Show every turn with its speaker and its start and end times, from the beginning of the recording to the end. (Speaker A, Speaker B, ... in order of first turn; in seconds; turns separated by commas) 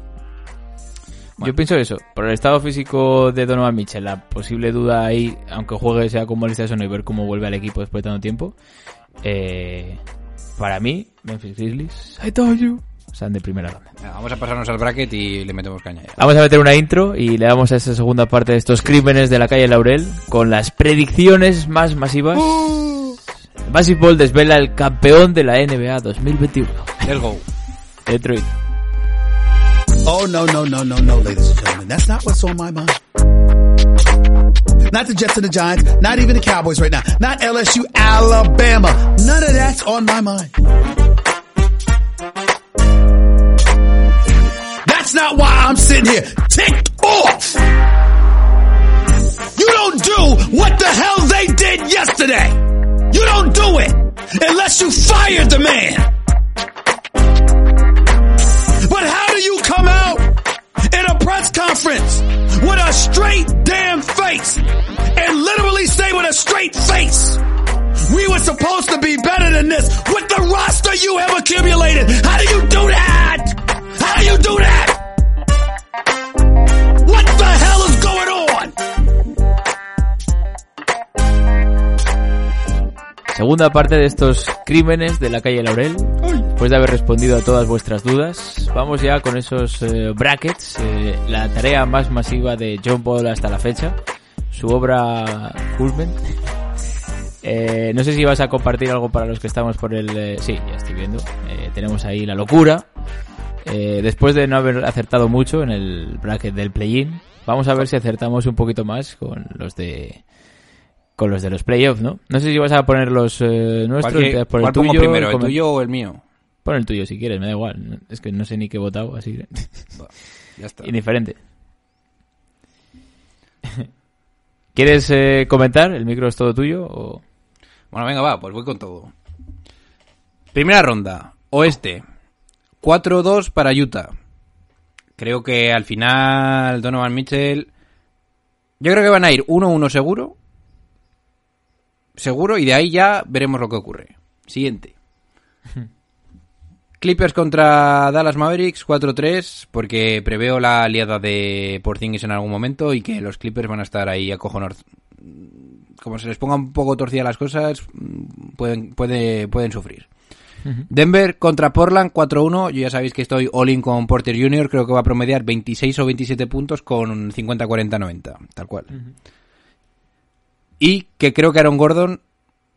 Speaker A: 1.4-8.6, Speaker A: 9.2-10.0, Speaker A: 10.6-13.9, Speaker B: 14.0-16.2, Speaker A: 16.2-23.0, Speaker B: 22.6-22.9, Speaker A: 23.7-27.0, Speaker B: 27.0-27.4, Speaker A: 28.1-28.6, Speaker C: 30.0-33.0, Speaker C: 34.9-40.5, Speaker C: 44.8-47.6, Speaker C: 49.5-56.1, Speaker C: 58.8-67.4, Speaker C: 68.0-75.0, Speaker C: 77.0-78.8, Speaker A: 83.3-94.0, Speaker A: 94.5-96.2, Speaker A: 97.4-102.9, Speaker A: 103.6-110.2, Speaker A: 111.2-115.6, Speaker B: 114.0-116.2, Speaker A: 116.6-119.9, Speaker B: 120.0-120.9, Speaker A: 120.8-121.4, Speaker A: 124.7-127.2, Speaker B: 127.9-129.1, Speaker B: 130.5-132.0, Speaker B: 132.8-134.1, Speaker B: 135.2-137.7, Speaker B: 138.8-140.3, Speaker B: 142.2-144.9, Speaker B: 147.0-160.1, Speaker B: 160.9-168.9, Speaker B: 170.8-172.2